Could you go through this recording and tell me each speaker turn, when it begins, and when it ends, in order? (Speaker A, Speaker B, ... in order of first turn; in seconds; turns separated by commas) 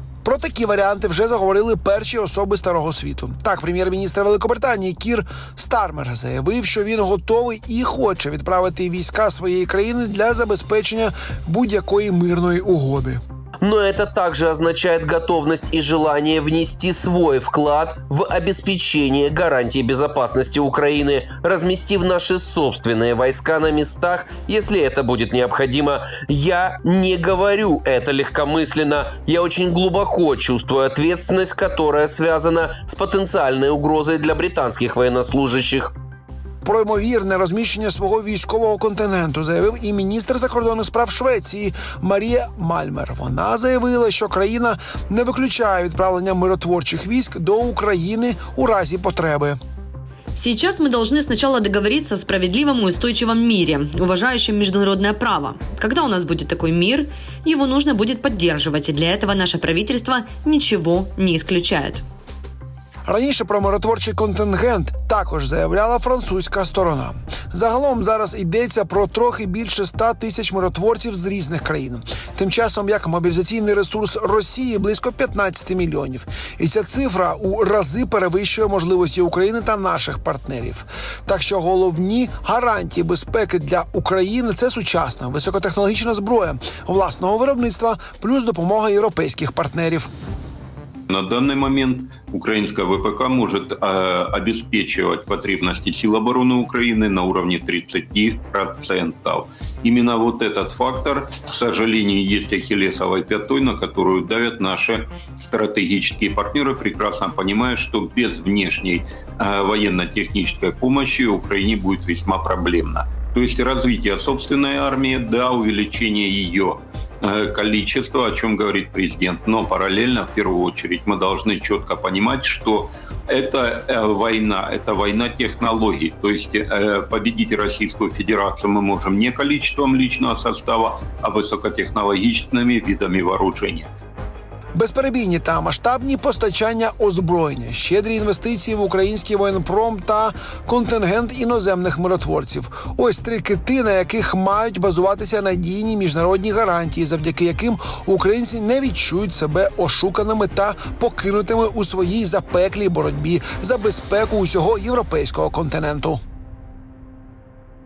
Speaker A: 0.2-13.2, Speaker B: 13.6-35.9, Speaker A: 36.6-49.6, Speaker C: 50.4-62.0, Speaker A: 63.1-90.1, Speaker D: 91.1-133.9, Speaker A: 134.8-156.2